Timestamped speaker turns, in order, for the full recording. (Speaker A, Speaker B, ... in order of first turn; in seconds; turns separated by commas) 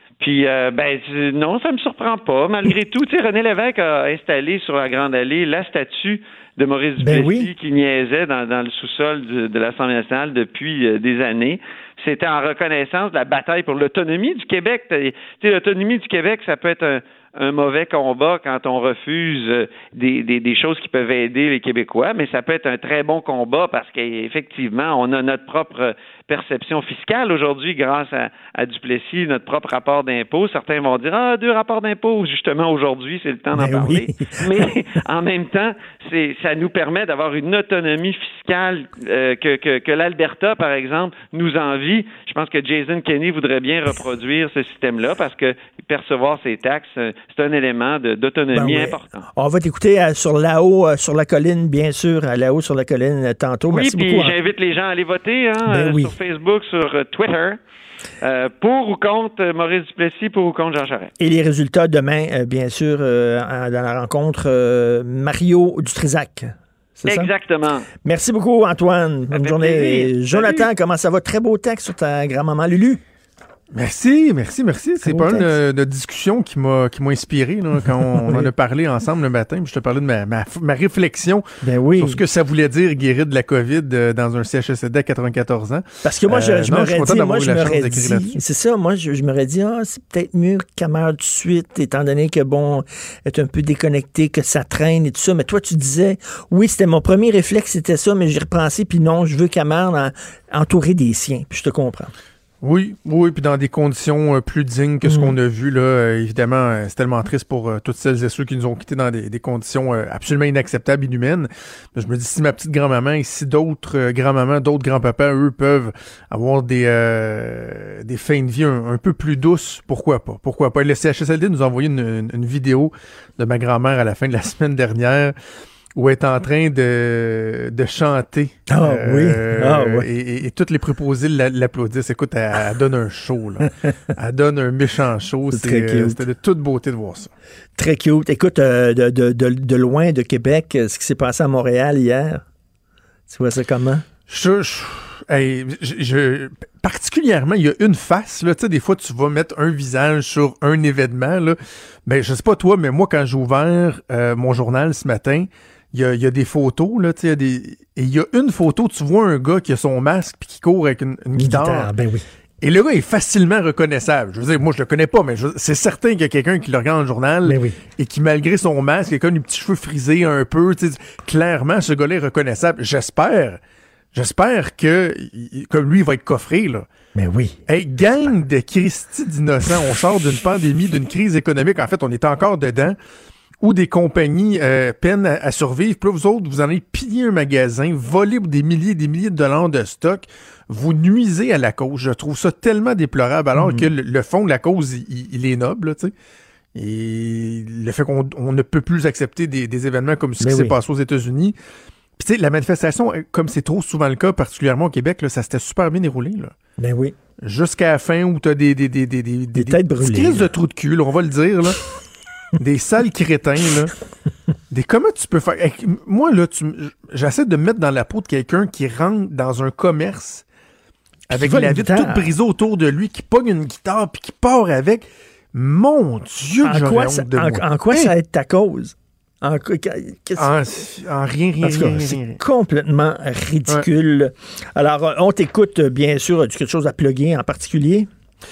Speaker A: 0.2-49.2, Speaker B: 7.0-7.5, Speaker B: 33.5-34.6, Speaker B: 48.5-54.4, Speaker A: 53.7-57.6, Speaker B: 55.6-56.1, Speaker A: 58.2-61.1, Speaker B: 61.2-67.3, Speaker A: 67.0-67.9, Speaker B: 68.0-73.0, Speaker A: 69.3-70.7, Speaker C: 73.7-88.4, Speaker B: 75.0-75.5, Speaker B: 78.0-78.5, Speaker B: 81.6-82.2, Speaker B: 86.0-102.1, Speaker C: 102.6-125.3, Speaker B: 105.0-105.3, Speaker C: 126.0-137.3, Speaker B: 128.7-130.1, Speaker B: 135.5-136.2, Speaker B: 137.8-142.4, Speaker B: 143.3-144.1, Speaker C: 144.3-161.9, Speaker B: 161.4-162.2, Speaker C: 162.6-173.6, Speaker B: 167.4-167.8, Speaker C: 174.1-176.9, Speaker B: 177.1-177.6, Speaker C: 177.7-182.9, Speaker C: 183.6-196.1, Speaker B: 193.6-193.9, Speaker C: 196.7-201.5, Speaker B: 200.4-200.8, Speaker C: 202.2-206.5, Speaker B: 206.8-207.1, Speaker C: 207.4-211.8, Speaker B: 209.5-210.5, Speaker C: 212.6-213.9, Speaker C: 214.7-220.4, Speaker C: 221.3-228.1, Speaker B: 221.3-222.3, Speaker B: 226.6-230.8, Speaker C: 230.4-232.4, Speaker B: 231.6-238.1